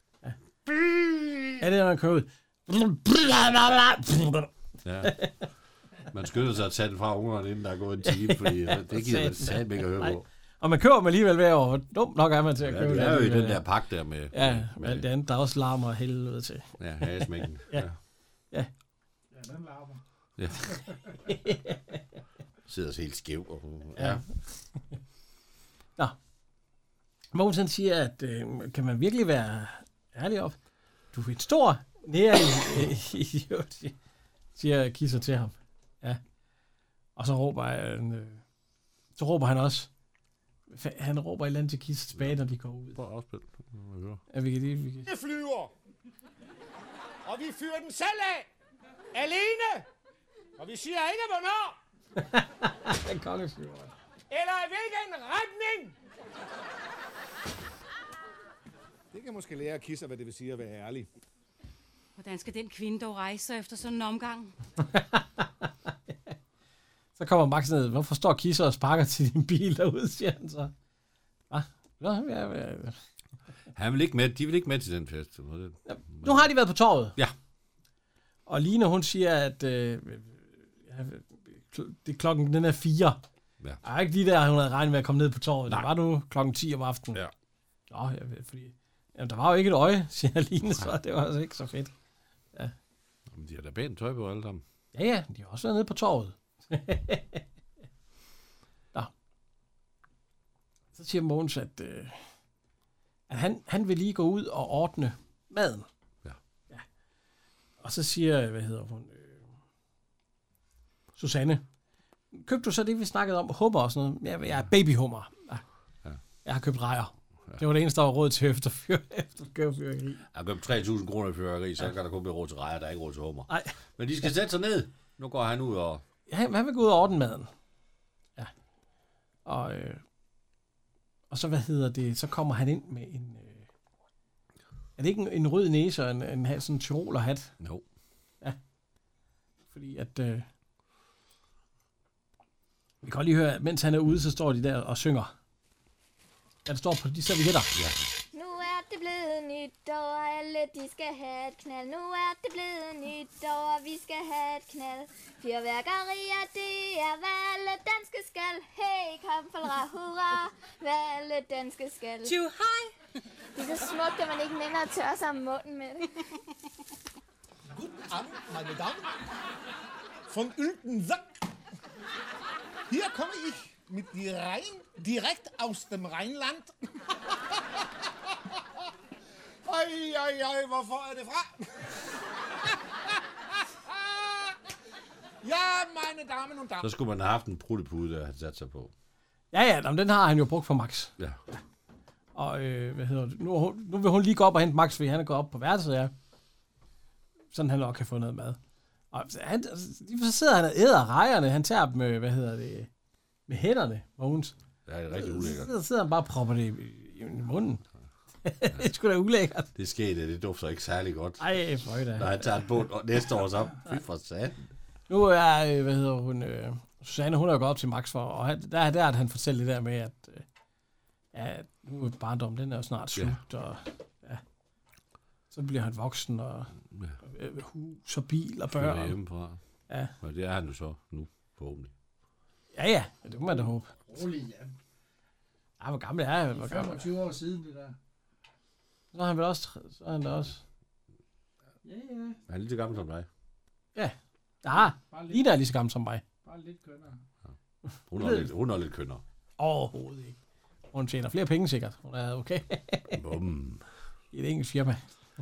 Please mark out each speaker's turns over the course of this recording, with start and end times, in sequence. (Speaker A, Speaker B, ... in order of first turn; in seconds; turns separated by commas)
Speaker A: 0.2-4.5, Speaker B: 4.8-5.2, Speaker A: 5.0-5.5, Speaker B: 6.1-10.2, Speaker A: 8.1-13.6, Speaker B: 12.6-15.1, Speaker A: 14.3-17.9, Speaker B: 16.8-18.0, Speaker C: 19.3-20.0, Speaker B: 20.4-20.7, Speaker A: 21.3-21.9, Speaker B: 22.7-24.2, Speaker A: 24.0-24.8, Speaker A: 27.3-30.6, Speaker A: 31.1-34.0, Speaker A: 34.6-36.2, Speaker A: 37.2-38.4, Speaker A: 39.2-39.9, Speaker A: 40.7-43.0, Speaker B: 43.0-44.2, Speaker A: 44.3-45.1, Speaker D: 45.1-45.7, Speaker D: 47.2-48.5, Speaker D: 49.1-49.9, Speaker D: 50.6-51.8, Speaker A: 52.2-53.9, Speaker D: 54.3-56.0, Speaker D: 59.1-61.1, Speaker E: 62.2-64.5, Speaker A: 64.8-66.1, Speaker A: 67.2-70.7, Speaker A: 71.5-73.0, Speaker B: 73.7-76.5, Speaker A: 75.9-77.2, Speaker A: 78.5-83.2, Speaker A: 83.8-87.2, Speaker A: 87.9-91.9, Speaker B: 93.3-94.6, Speaker A: 94.9-97.4, Speaker A: 101.0-102.2, Speaker A: 103.3-105.9, Speaker A: 107.8-109.5, Speaker A: 111.2-111.6, Speaker A: 112.3-115.6, Speaker A: 116.4-120.2, Speaker B: 120.3-126.0, Speaker A: 123.5-123.7, Speaker A: 126.3-127.5, Speaker A: 129.4-130.0, Speaker A: 131.3-133.7, Speaker A: 135.0-137.5, Speaker B: 137.6-137.8, Speaker A: 139.7-140.5, Speaker A: 143.0-145.3, Speaker A: 146.7-147.7, Speaker B: 147.7-148.1, Speaker F: 148.3-162.4, Speaker E: 162.2-162.9, Speaker F: 163.6-166.1, Speaker D: 167.7-169.1, Speaker D: 170.3-171.3, Speaker D: 172.9-176.7, Speaker D: 179.6-181.9, Speaker D: 182.7-183.2, Speaker D: 183.7-184.6, Speaker D: 185.4-186.9, Speaker B: 186.8-188.9, Speaker A: 189.5-191.1, Speaker A: 192.3-196.1, Speaker A: 197.5-198.6, Speaker A: 199.1-202.9, Speaker A: 203.5-204.5, Speaker B: 204.9-205.7, Speaker A: 205.1-207.8, Speaker A: 208.4-209.7, Speaker B: 209.7-211.5, Speaker A: 211.4-212.6, Speaker B: 212.1-214.6, Speaker A: 215.1-220.4, Speaker A: 221.3-224.4, Speaker A: 225.5-229.2, Speaker B: 226.9-227.2, Speaker B: 228.7-229.6, Speaker B: 230.2-231.9, Speaker A: 232.7-233.9, Speaker C: 233.9-234.7, Speaker A: 235.8-237.1, Speaker C: 236.5-237.9, Speaker A: 239.1-240.6, Speaker C: 241.8-242.4, Speaker B: 242.5-243.3, Speaker A: 243.9-246.2, Speaker C: 244.9-245.4, Speaker C: 246.4-247.2, Speaker B: 248.1-249.2, Speaker A: 248.2-248.5, Speaker A: 249.6-250.4, Speaker A: 250.9-253.2, Speaker B: 253.1-253.8, Speaker A: 254.3-255.1